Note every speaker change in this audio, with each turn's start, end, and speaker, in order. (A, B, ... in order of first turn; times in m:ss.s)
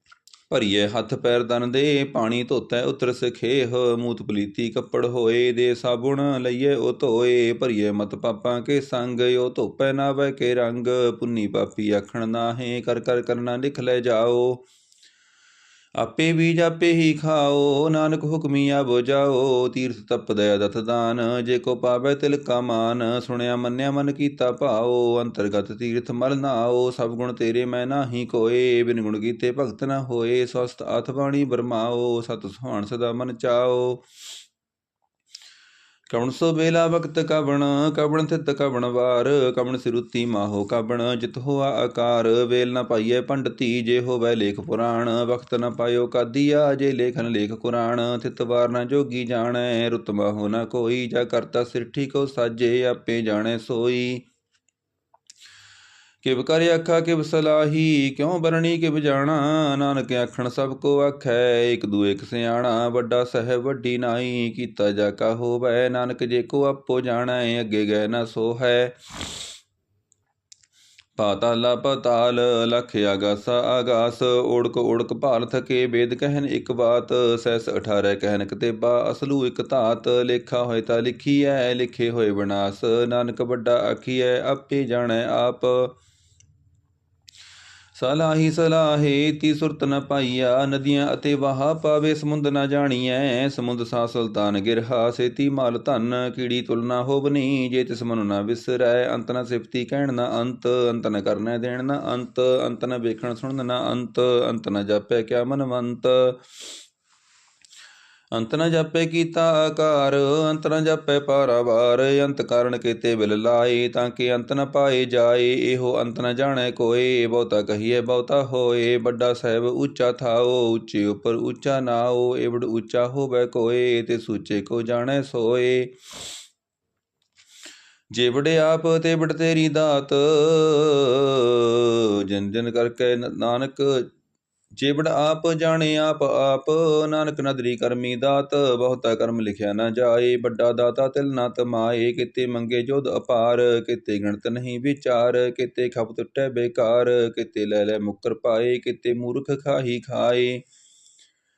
0:00.5-0:14.6 A
0:16.0-0:34.0 A
0:36.1-0:54.3 A
0:56.2-1:09.4 A
1:11.2-1:26.0 A
1:28.0-1:46.5 A
1:48.3-2:06.1 A
2:08.1-2:14.1 A
2:14.8-2:30.6 A